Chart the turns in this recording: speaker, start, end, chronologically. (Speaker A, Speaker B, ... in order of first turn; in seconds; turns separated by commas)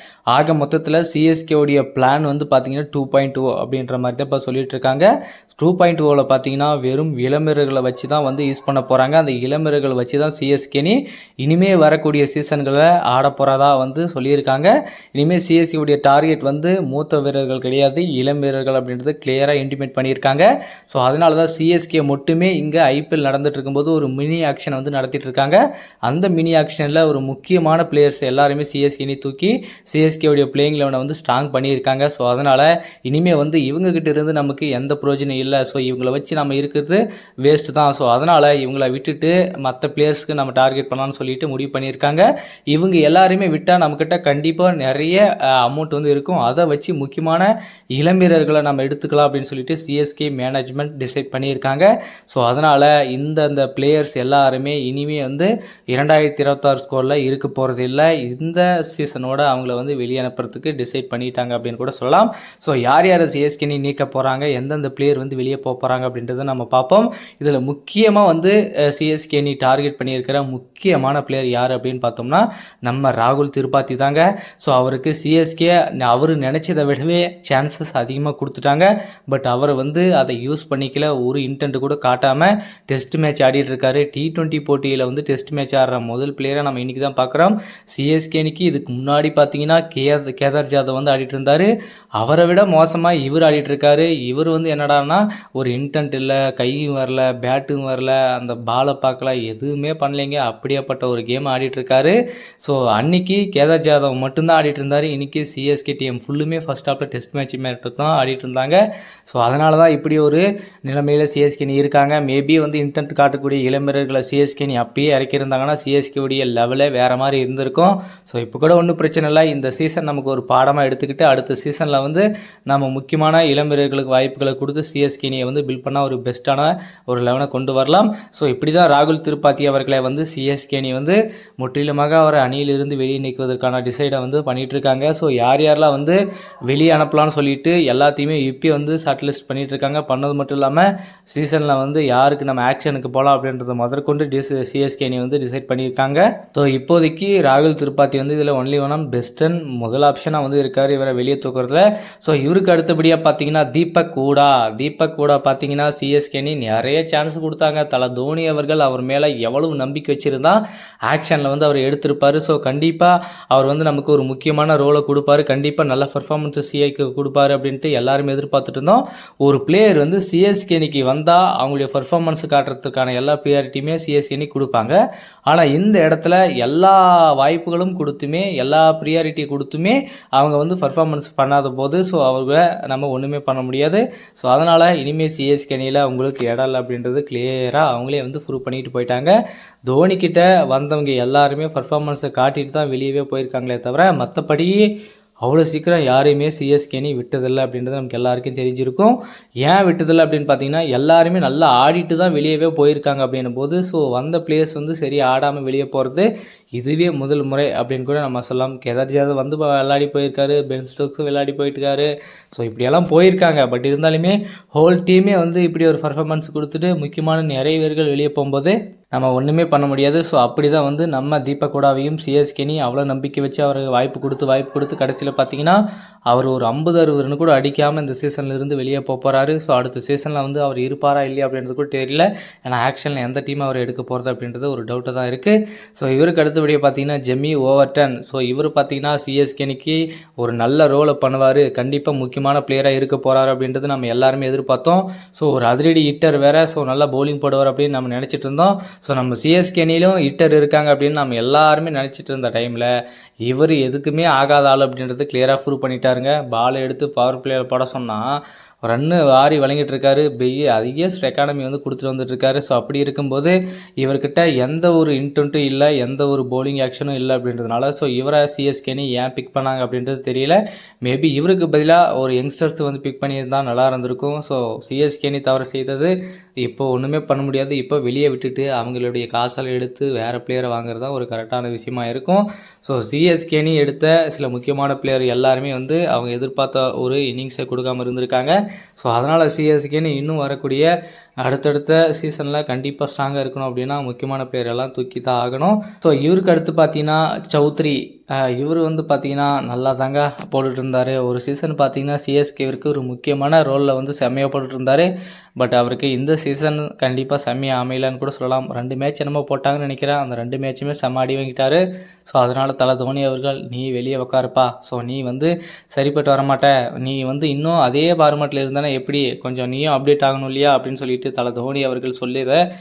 Speaker A: 0.3-175.0, Speaker A: 175.5-189.3, Speaker A: 189.9-194.8, Speaker A: 195.4-252.9, Speaker A: 253.4-258.2, Speaker A: 258.8-290.9, Speaker A: 291.4-322.6